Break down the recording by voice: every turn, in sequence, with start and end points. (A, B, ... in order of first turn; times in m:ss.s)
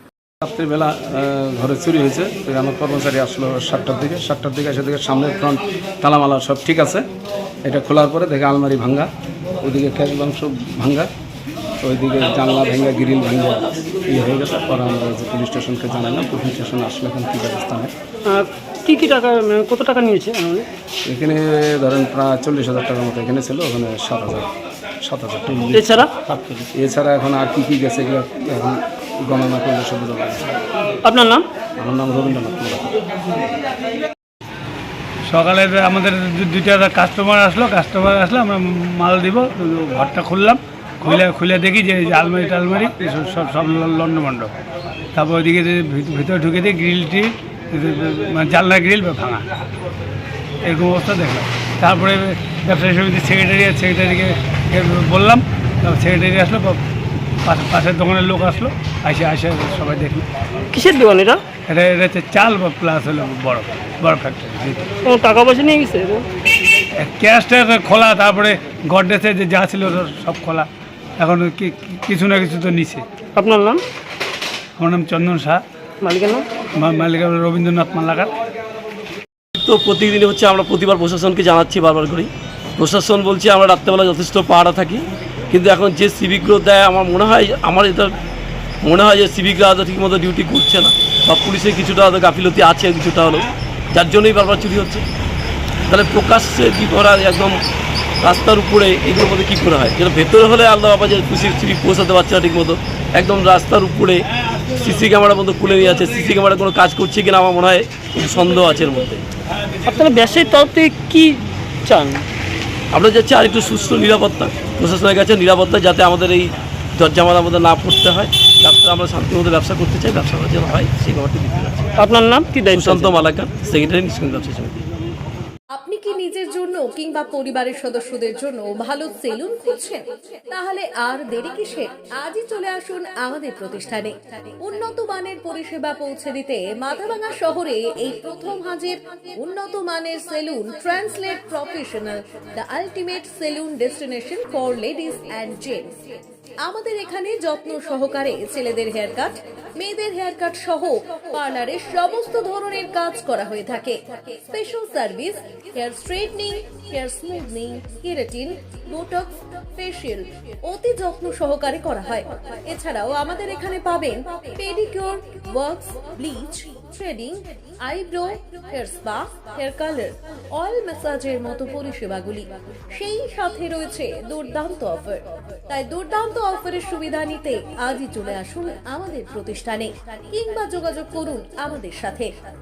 0:00.4-0:07.0 A
0:07.7-0:09.1 A
0:09.6-0:11.1 A
0:11.8-0:17.9 A
0:18.3-0:20.7 B
0:21.0-0:24.5 A
0:25.0-0:25.8 A
0:25.7-0:26.1 B
0:26.3-0:26.6 C
0:26.7-0:30.4 A
0:31.0-0:31.4 B
0:31.8-0:32.9 A
0:35.3-0:44.5 D
0:45.1-0:49.4 D
0:50.6-0:56.8 D
0:57.4-1:00.2 D
1:00.7-1:01.4 B
1:01.7-1:04.9 D
1:05.0-1:06.2 B
1:07.0-1:10.7 D
1:11.2-1:13.0 D
1:13.4-1:13.8 B
1:14.8-1:15.6 D
1:16.0-1:16.4 B
1:16.8-1:18.3 D
1:19.6-1:28.1 C
1:28.8-1:35.0 C
1:35.9-1:37.6 C
1:38.2-1:49.2 C
1:49.9-1:52.2 B
1:52.9-2:01.9 C
2:02.0-2:03.2 B
2:02.7-2:04.8 C
2:05.7-2:25.9 E
2:26.6-3:02.3 E